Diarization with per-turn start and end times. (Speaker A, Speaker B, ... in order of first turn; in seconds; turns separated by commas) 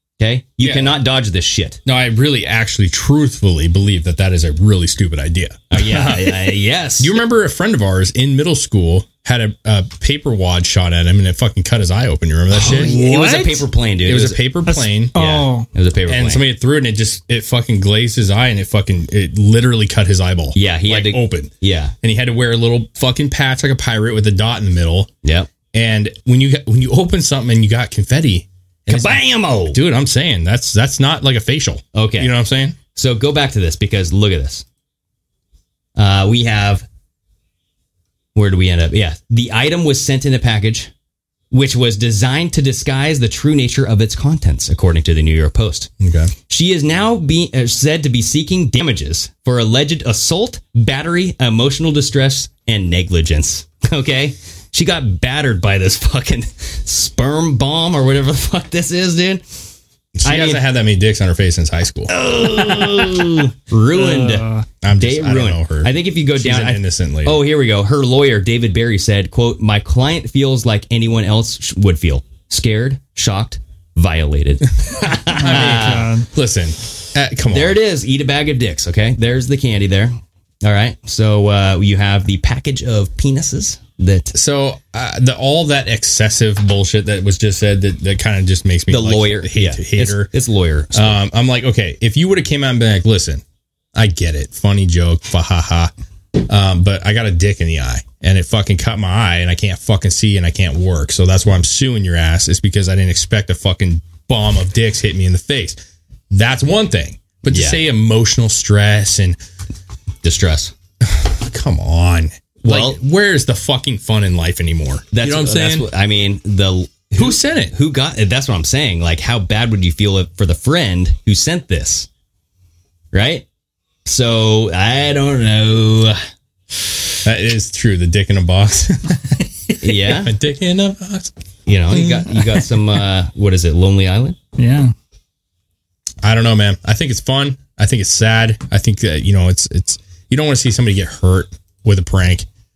Speaker A: 0.2-1.8, Speaker B: 0.6-1.0, Speaker B: 1.9-12.9, Speaker A: 5.7-7.2, Speaker C: 12.6-13.7, Speaker A: 12.7-14.4, Speaker B: 14.1-15.2, Speaker C: 14.7-15.7, Speaker A: 15.2-16.4, Speaker B: 16.1-25.1, Speaker A: 20.5-21.9, Speaker A: 25.2-25.5, Speaker B: 25.7-32.8, Speaker A: 28.9-29.8, Speaker A: 31.9-32.4, Speaker A: 32.9-34.6, Speaker A: 36.0-36.9, Speaker A: 38.4-40.9, Speaker A: 41.5-45.9, Speaker B: 46.0-46.3, Speaker A: 46.5-59.4, Speaker B: 60.2-62.1, Speaker A: 60.2-60.6, Speaker A: 62.1-64.5, Speaker C: 62.7-63.2, Speaker C: 63.9-64.7, Speaker B: 64.8-67.4, Speaker A: 65.0-76.1, Speaker B: 74.8-77.8, Speaker C: 75.3-76.3, Speaker A: 77.5-84.3, Speaker B: 84.3-90.3, Speaker A: 88.9-91.2, Speaker B: 90.9-93.4, Speaker B: 94.0-105.8, Speaker B: 106.3-109.4, Speaker A: 107.5-107.8, Speaker A: 110.2-110.7, Speaker B: 111.0-115.9, Speaker A: 112.6-113.0, Speaker A: 115.1-122.1, Speaker B: 117.2-117.7, Speaker A: 123.1-123.5, Speaker A: 124.0-126.2, Speaker B: 127.2-131.3, Speaker A: 129.8-130.3, Speaker A: 131.7-134.4, Speaker B: 131.9-132.6, Speaker C: 134.6-134.9, Speaker B: 136.2-142.5